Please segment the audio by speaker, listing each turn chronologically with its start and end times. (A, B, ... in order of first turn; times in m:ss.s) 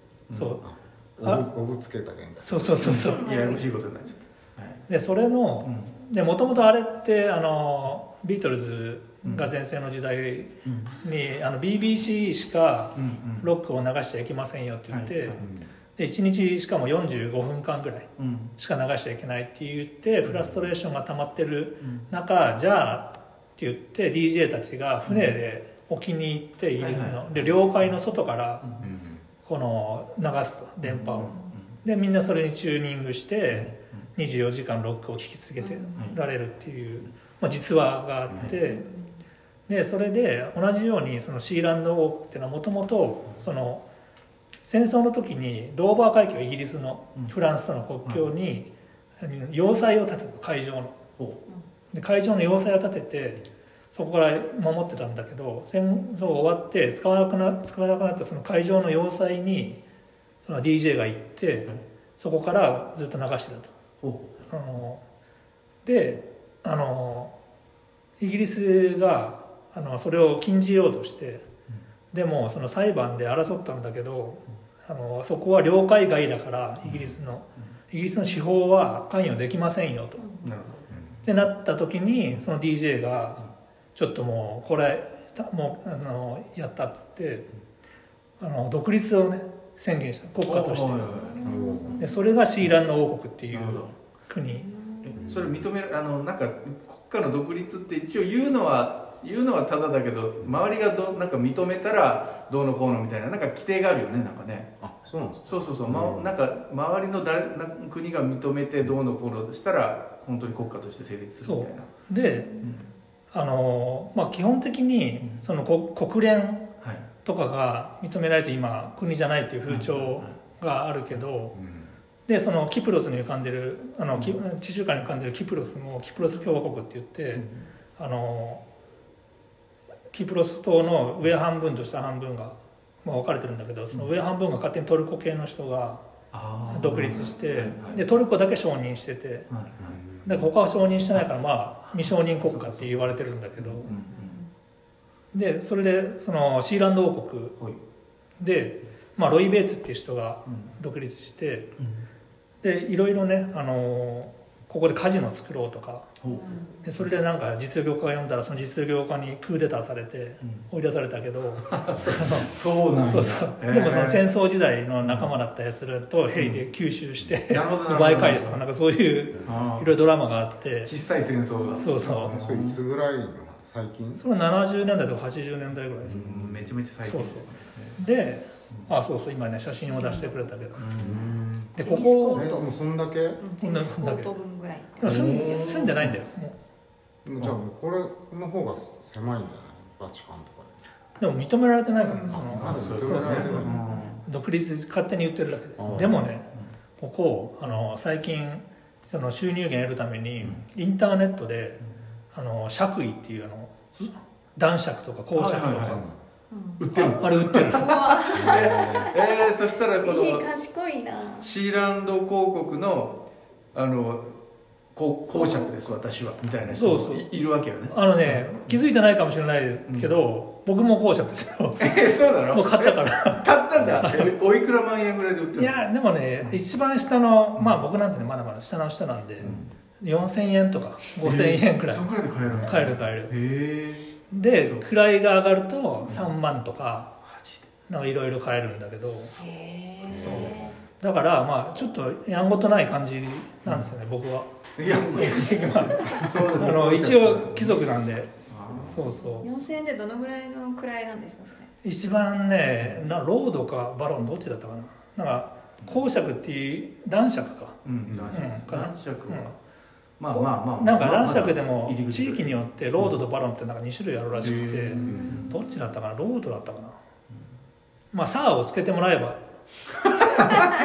0:00.3-0:00.6 A
0:00.3-0:00.6 B
0:00.6-0:03.0 C
0:02.4-0:03.2 B
0:02.8-0:04.8 A
0:03.0-0:03.7 D
0:04.9-0:15.4 B
0:05.6-0:05.9 A
0:09.2-0:09.5 A
0:10.6-0:11.0 A
0:12.9-0:13.5 A
0:14.9-0:15.5 A
0:15.4-0:15.7 C
0:16.0-0:28.7 B
0:18.2-0:18.5 A
0:25.1-0:25.3 A
0:26.8-0:27.9 A
0:28.6-0:28.9 A
0:28.8-0:29.2 C
0:29.4-0:38.8 B
0:30.8-0:31.8 A
0:33.5-0:34.0 A
0:35.6-0:36.1 D
0:38.6-0:39.1 D
0:39.7-0:43.8 B
0:44.6-0:50.9 B
0:51.9-0:59.8 B
1:00.4-1:03.7 B
1:04.0-1:04.3 A
1:04.5-1:05.0 B
1:05.8-1:07.3 B
1:08.2-1:11.4 B
1:12.1-1:20.2 B
1:20.2-1:20.5 D
1:20.4-1:21.0 A
1:21.2-1:23.4 B
1:23.9-1:27.5 B
1:28.4-1:31.2 B
1:30.4-1:32.0 A
1:31.1-1:32.1 D
1:31.4-1:32.0 C
1:32.0-1:34.7 B
1:33.5-1:33.9 A
1:34.5-1:35.2 D
1:35.0-1:44.7 A
1:35.2-1:35.6 C
1:44.8-1:46.3 C
1:45.5-1:51.9 A
1:51.4-1:52.6 B
1:52.6-1:52.9 A
1:53.3-1:56.7 B
1:56.8-1:57.1 A
1:57.2-2:01.6 B
1:59.7-2:00.4 A
2:01.5-2:01.9 C
2:02.3-2:08.6 B
2:10.1-2:16.0 B
2:16.3-2:18.0 A
2:16.7-2:19.5 B
2:17.0-2:18.0 D
2:19.5-2:20.0 A
2:19.8-2:20.5 C
2:20.2-2:23.9 B
2:21.9-2:24.4 A
2:24.0-2:24.5 D
2:25.3-2:27.6 B
2:28.4-2:31.7 B
2:30.5-2:30.7 A
2:32.6-2:36.1 B
2:36.2-2:36.5 A
2:36.3-2:36.8 D
2:36.8-2:42.5 B
2:40.4-2:40.7 A
2:41.7-2:44.3 A
2:43.0-2:50.9 B
2:45.0-2:45.3 A
2:46.4-2:46.6 A
2:47.5-2:48.6 A
2:49.3-2:49.7 C
2:49.4-2:50.1 A
2:50.8-2:52.8 A
2:51.6-2:51.9 D
2:51.8-2:52.3 B
2:52.2-2:54.2 C
2:54.2-2:56.2 B
2:56.0-2:58.0 A
2:56.0-2:56.7 C
2:57.0-3:00.8 B
2:59.8-3:00.4 D
3:00.8-3:01.4 A
3:01.0-3:01.8 C
3:01.8-3:02.5 B
3:01.8-3:02.7 D
3:02.3-3:03.4 C
3:03.4-3:06.0 D
3:03.6-3:04.3 B
3:05.0-3:06.6 B
3:05.0-3:06.2 A
3:07.2-3:10.8 C
3:11.2-3:16.5 B
3:12.0-3:12.5 D
3:12.3-3:13.8 C
3:12.6-3:14.2 A
3:13.5-3:14.0 D
3:15.8-3:16.2 C
3:17.0-3:21.8 B
3:22.3-3:26.0 B
3:25.3-3:26.0 A
3:26.5-3:26.9 D
3:26.8-3:30.5 A
3:26.9-3:28.1 B
3:27.6-3:31.5 D
3:28.3-3:29.1 C
3:31.4-3:33.2 A
3:33.7-3:34.4 A
3:34.9-3:38.8 A
3:35.3-3:35.7 D
3:36.7-3:37.2 B
3:37.9-3:41.9 B
3:39.9-3:40.1 A
3:41.8-3:45.8 A
3:42.5-3:43.5 B
3:44.0-3:44.3 B
3:45.6-3:52.1 B
3:49.4-3:49.7 A
3:51.2-3:54.8 A
3:52.6-3:53.3 B
3:54.3-3:57.1 B
3:57.2-3:57.7 A
3:57.9-3:59.3 B
3:59.4-4:00.8 D
4:00.0-4:00.7 C
4:00.2-4:00.5 A
4:00.2-4:00.5 B
4:01.0-4:04.5 B
4:03.6-4:03.9 A
4:04.8-4:07.8 A
4:05.1-4:09.5 B
4:08.4-4:09.0 A
4:08.7-4:09.0 C
4:09.2-4:11.7 D
4:11.8-4:17.8 B
4:17.8-4:19.6 A
4:18.1-4:18.4 C
4:18.3-4:19.5 B
4:20.2-4:23.1 A
4:20.3-4:27.0 B
4:24.4-4:25.5 A
4:25.0-4:25.7 D
4:25.0-4:25.4 C
4:28.1-4:29.4 B